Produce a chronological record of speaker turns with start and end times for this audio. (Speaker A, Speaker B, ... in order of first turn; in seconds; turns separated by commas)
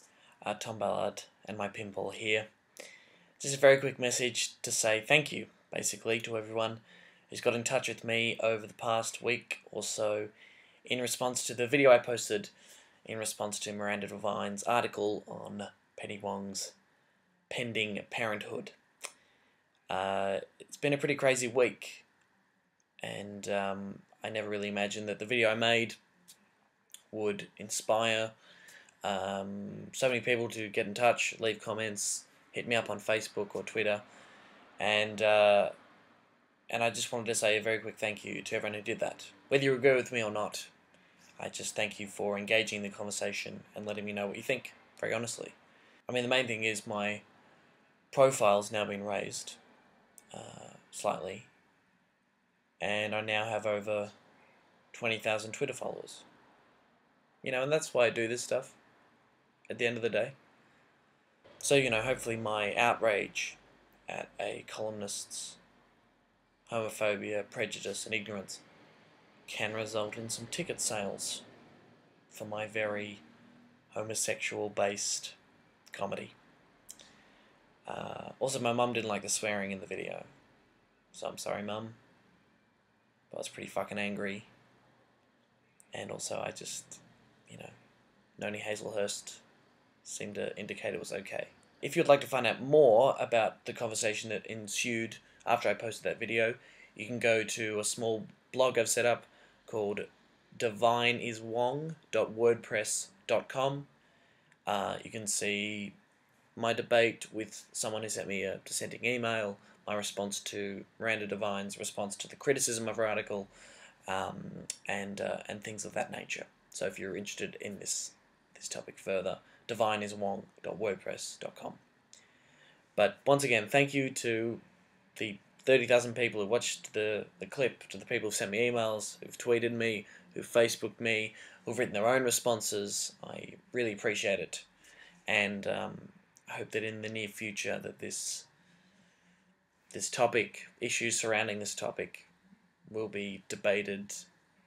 Speaker A: 0.4-2.5, Speaker A: 3.4-10.3, Speaker A: 10.8-12.5, Speaker A: 13.1-16.8, Speaker A: 17.5-18.8, Speaker A: 19.9-22.1, Speaker A: 23.0-26.0, Speaker A: 27.1-28.3, Speaker A: 29.0-34.0, Speaker A: 34.8-35.7, Speaker A: 36.7-40.7, Speaker A: 41.4-47.2, Speaker A: 48.1-49.6, Speaker A: 50.3-51.5, Speaker A: 52.8-54.1, Speaker A: 54.9-56.3, Speaker A: 57.4-58.8, Speaker A: 59.7-60.4, Speaker A: 61.6-65.6, Speaker A: 66.7-68.6, Speaker A: 69.5-71.5, Speaker A: 72.3-73.2, Speaker A: 73.9-75.4, Speaker A: 75.9-76.4, Speaker A: 77.9-80.3, Speaker A: 81.1-82.0, Speaker A: 83.3-84.5, Speaker A: 85.9-87.7, Speaker A: 88.4-89.4, Speaker A: 90.0-103.9, Speaker A: 104.7-106.0, Speaker A: 106.6-113.5, Speaker A: 114.1-121.8, Speaker A: 123.0-124.6, Speaker A: 125.2-134.7, Speaker A: 135.3-138.5, Speaker A: 139.9-142.3, Speaker A: 142.9-144.3